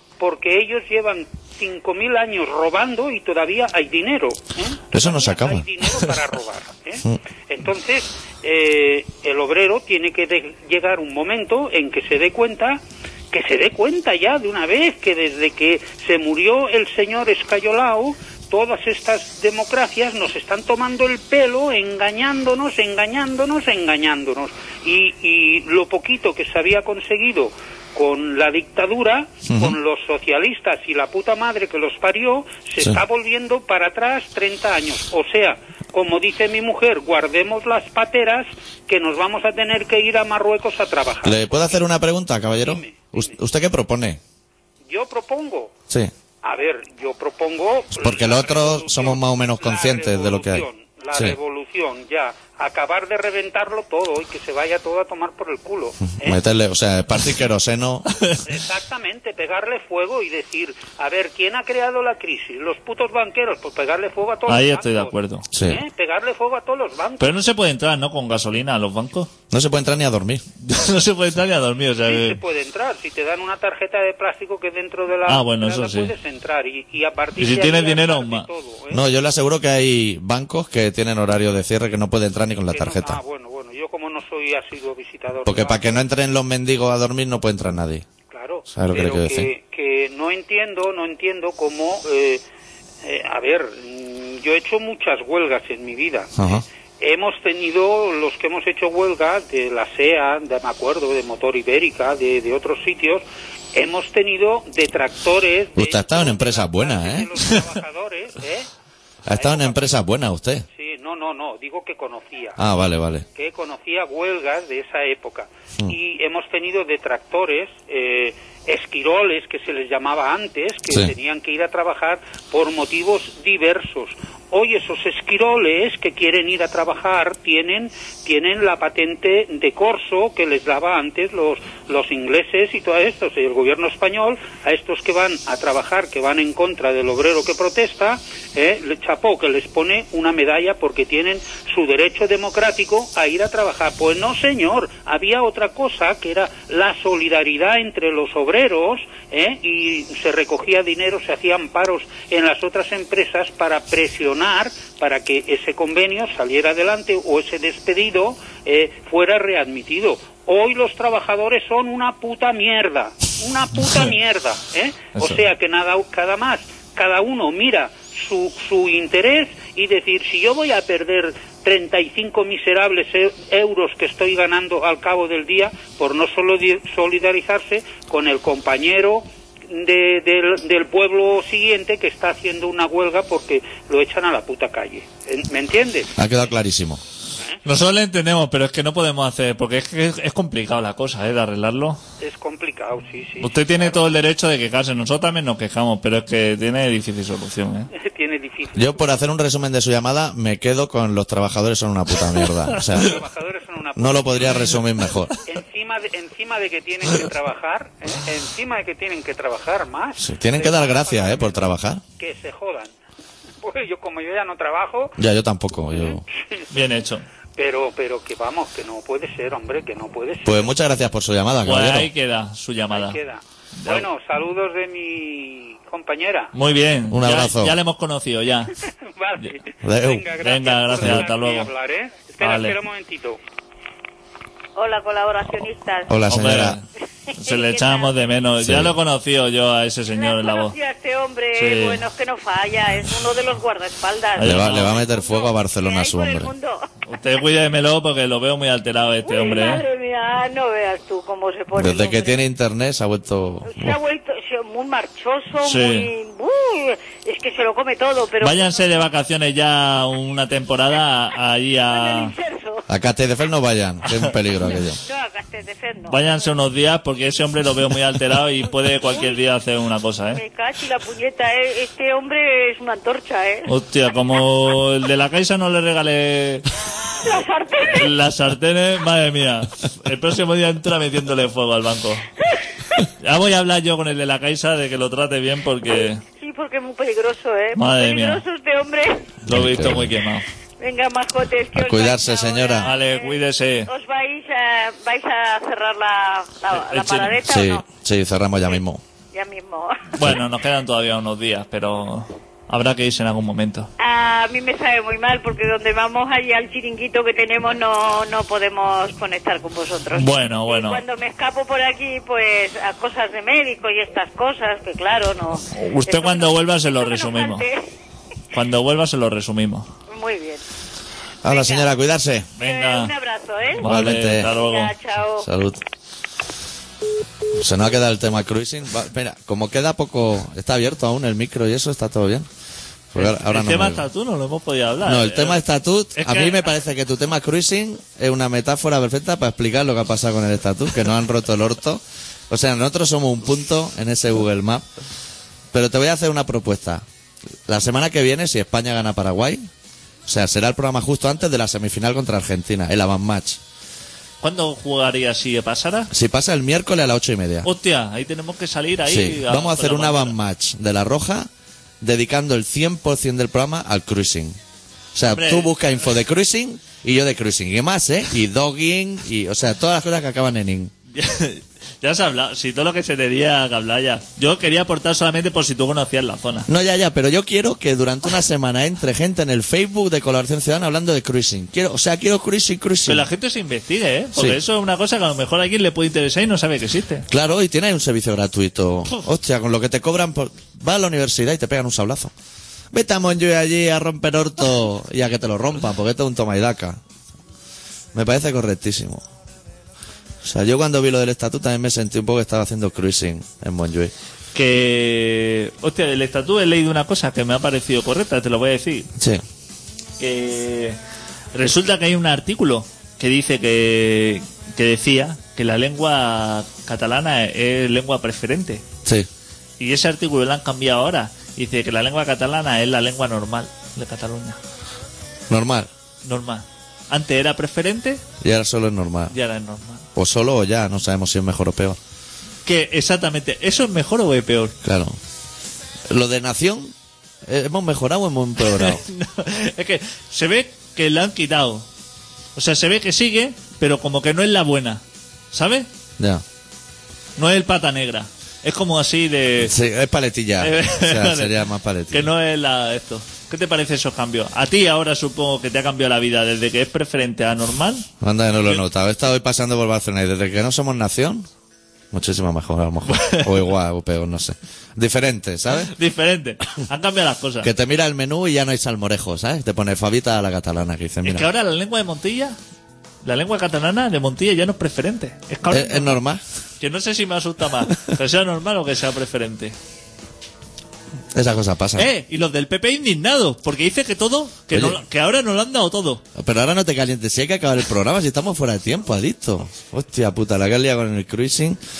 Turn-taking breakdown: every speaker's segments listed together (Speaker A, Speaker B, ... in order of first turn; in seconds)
Speaker A: 0.2-41.7, 42.6-43.3, 44.9-45.7, 46.4-56.4, 58.4-67.4, 72.0-79.0, 82.7-86.0, 88.3-92.4, 93.0-108.7, 109.3-109.9, 110.7-112.6, 113.3-186.1, 192.2-194.1, 197.9-199.1, 202.8-204.7, 205.4-212.9, 213.6-215.2, 216.0-216.2, 217.6-220.7, 222.9-226.5, 229.1-233.4
Speaker B: 4.9-5.7, 29.4-29.8, 41.2-44.2, 48.0-51.4, 56.2-58.0, 65.5-65.8, 69.5-70.4, 78.9-83.2, 85.4-88.0, 88.7-89.5, 96.3-96.6, 105.8-107.3, 109.2-110.7, 112.6-113.2, 186.2-187.0, 198.8-203.2, 203.9-205.3, 210.2-212.0, 215.2-216.2, 220.4-222.1, 227.1-227.7, 229.8-230.3, 236.1-236.8, 238.6-238.9, 244.4-246.5, 251.7-254.0, 262.9-265.0, 289.5-290.1, 291.7-292.9, 297.4-299.0, 321.4-322.5, 323.8-324.5, 325.4-325.8, 327.5-332.5, 333.1-334.0, 335.0-344.8, 345.7-347.0, 347.7-349.7, 350.2-353.6, 356.1-357.7, 359.1-361.5, 362.0-364.6, 365.1-370.9, 376.7-383.2, 387.3-392.3, 392.9-397.0, 398.1-399.2, 400.4-404.1, 409.1-409.4, 425.5-425.9, 428.4-429.3, 430.1-432.0, 434.8-435.2, 436.1-436.9, 437.4-439.0, 446.2-446.4, 449.6-452.3, 458.2-461.5, 462.1-465.9, 467.6-471.5, 475.7-476.4, 481.3-482.1, 484.7-485.0, 486.3-491.8
Speaker C: 64.5-65.5, 67.2-69.3, 70.6-72.4, 75.3-76.1, 77.4-78.5, 165.1-165.4, 187.6-192.0, 193.4-197.9, 216.7-217.2, 221.6-223.2, 223.8-224.1, 226.5-228.7, 230.4-231.7, 232.4-232.8, 236.3-236.8, 237.3-240.7, 241.6-242.0, 244.3-245.0, 247.1-249.8, 255.6-256.1, 258.4-262.3, 264.0-264.3, 266.1-270.4, 273.6-276.6, 277.9-282.3, 283.0-286.2, 287.7-288.4, 289.4-290.4, 292.8-293.9, 296.7-297.4, 300.1-303.9, 310.1-311.0, 315.7-317.6, 318.5-319.9, 322.6-323.1, 323.8-324.9, 333.1-336.7, 354.4-356.1, 357.6-360.3, 365.3-365.8, 371.1-376.7, 383.1-387.3, 404.5-409.1, 410.2-411.0, 411.5-418.8, 419.8-424.6, 426.2-428.2, 429.3-430.1, 432.6-434.8, 438.6-441.9, 442.5-445.9, 447.4-449.7, 450.6-451.5, 452.1-458.1, 463.1-463.6, 465.8-467.7, 471.2-472.6, 473.2-476.2, 476.8-479.8, 481.9-486.2
Speaker D: 234.8-236.1, 237.3-238.1, 240.1-246.9, 249.2-252.4, 253.6-259.0, 261.9-262.8, 264.6-266.5, 268.9-269.4, 270.3-273.7, 277.2-278.1, 282.5-283.0, 286.4-289.4, 290.8-297.9, 299.3-300.2, 304.0-317.9, 320.1-320.6, 321.5-321.9, 322.6-323.9, 324.4-325.5